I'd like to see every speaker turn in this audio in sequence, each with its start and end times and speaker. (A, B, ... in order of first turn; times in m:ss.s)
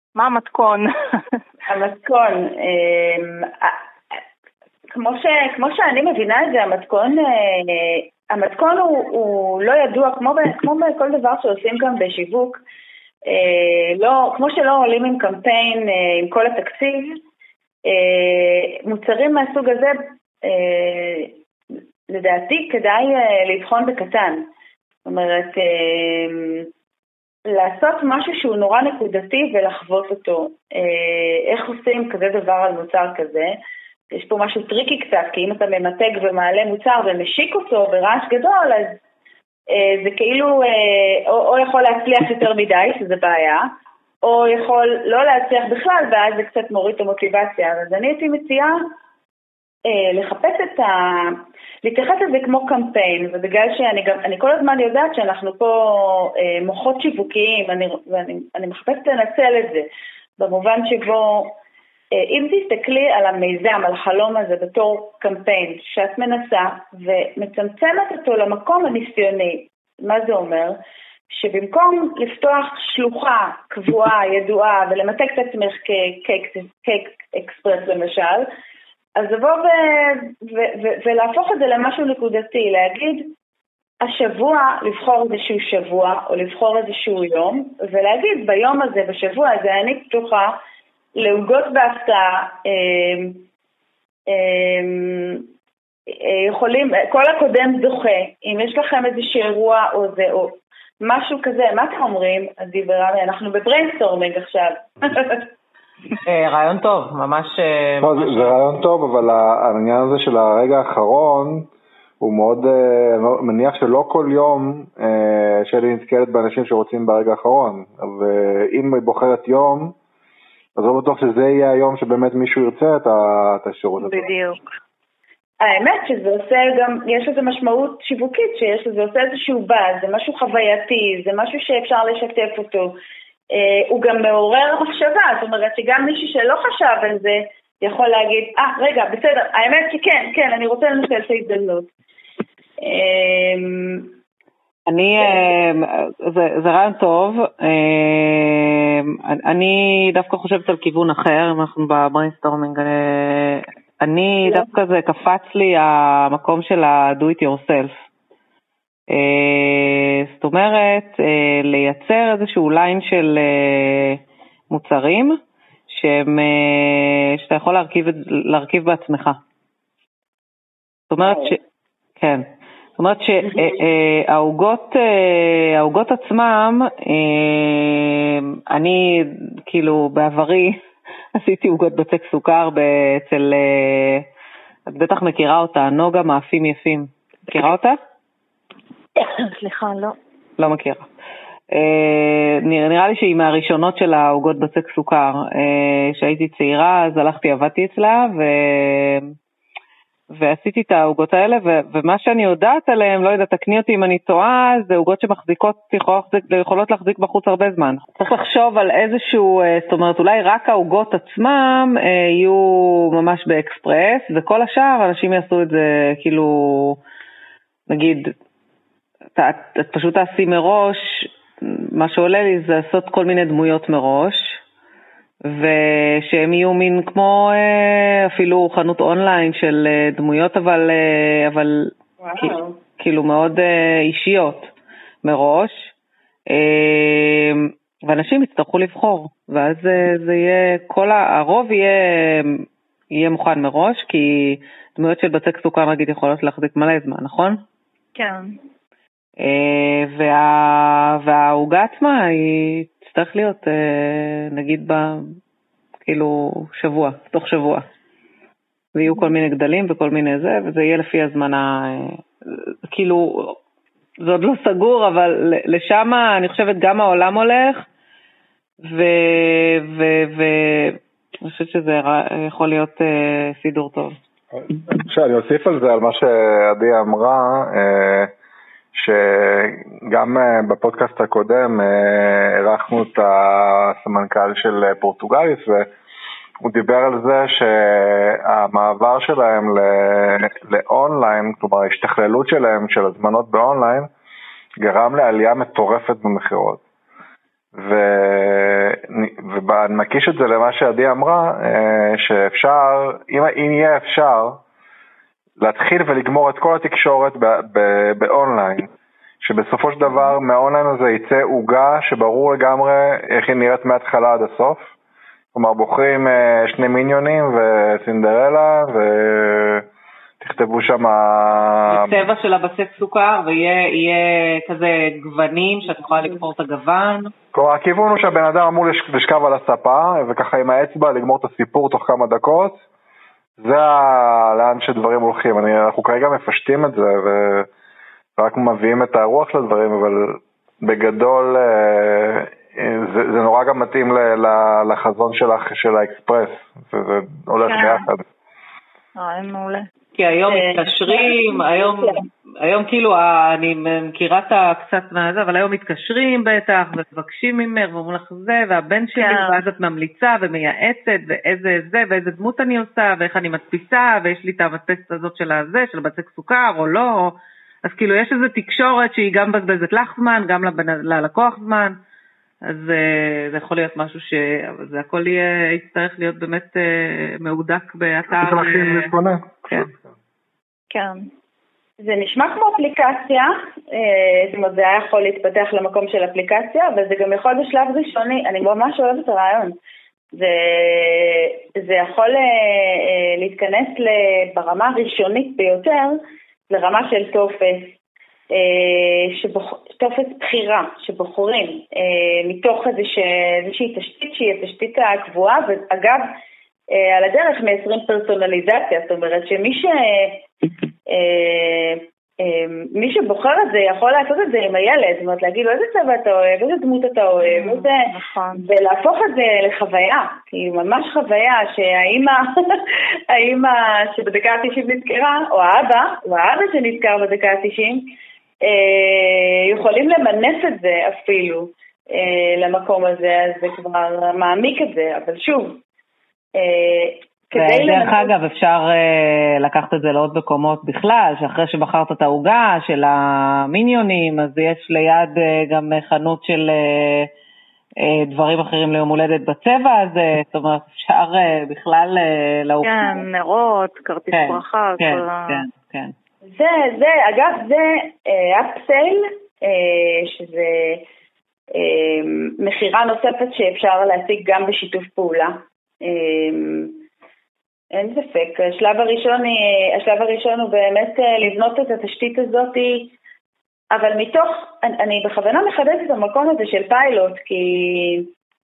0:00.2-0:01.4 A
0:01.7-0:04.2 B
0:04.9-0:12.6 B
0:13.3-0:17.2 B
0:17.9-0:21.3 B
0:22.1-0:24.4 B
0:25.0-0:26.7 B
0:27.5-0:33.6 B
0:34.1-0:39.0 B
0:39.7-0:43.6 B
0:44.2-0:48.8 B
0:49.9-0:59.9 B
1:00.4-1:01.6 B
1:02.1-1:10.8 B
1:11.3-1:18.5 B
1:19.2-1:23.3 B
1:24.0-1:30.6 B
1:31.2-1:33.4 B
1:34.3-1:35.5 B
1:36.1-1:45.5 B
1:46.2-1:48.6 C
1:48.0-1:51.7 D
1:52.2-1:59.9 D
2:00.8-2:04.3 D
2:04.0-2:04.8 A
2:05.6-2:13.0 B
2:13.5-2:21.9 B
2:22.8-2:24.1 B
2:24.9-2:37.9 C
2:39.1-2:44.2 C
2:44.7-2:49.4 C
2:51.1-2:51.6 C
2:51.2-2:51.6 B
2:52.2-2:52.4 C
2:53.0-3:00.8 C
2:53.4-2:53.8 B
3:01.4-3:04.3 C
3:04.9-3:08.0 C
3:09.2-3:10.2 A
3:10.6-3:11.1 C
3:11.7-3:19.3 C
3:20.3-3:37.0 C
3:37.9-3:38.3 C
3:39.4-3:44.6 C
3:45.5-3:54.7 C
3:52.2-3:52.8 B
3:55.2-3:55.9 C
3:56.5-4:07.6 C
4:08.2-4:08.6 A
4:09.4-4:15.3 C
4:16.1-4:17.9 C
4:19.0-4:23.6 C
4:24.2-4:27.9 C
4:28.8-4:34.2 C
4:34.5-4:38.3 D
4:38.9-4:45.9 D
4:46.6-4:54.1 D
4:54.8-4:56.8 D
4:57.7-5:04.6 D
5:05.6-5:08.9 D
5:09.4-5:14.9 D
5:15.5-5:19.9 D
5:20.4-5:22.2 D
5:21.9-5:27.3 C
5:27.5-5:32.8 D
5:33.6-5:37.7 D
5:38.4-5:48.2 D
5:47.6-5:48.1 A
5:49.2-5:49.9 A
5:50.2-6:12.0 C
5:50.5-5:52.2 B
5:59.2-5:59.6 A
6:12.7-6:19.1 C
6:18.4-6:20.0 D
6:20.9-6:21.3 A
6:22.0-6:29.8 B
6:30.3-6:37.9 B
6:38.5-6:46.2 B
6:46.9-6:50.5 B
6:51.1-7:08.1 B
6:57.4-6:58.6 A
7:08.6-7:15.8 B
7:16.6-7:18.3 B
7:17.6-7:27.3 C
7:28.0-7:33.2 C
7:32.8-7:35.6 A
7:34.3-7:36.1 C
7:36.6-7:41.0 B
7:41.7-7:47.0 B
7:48.0-7:53.1 B
7:53.9-7:58.3 B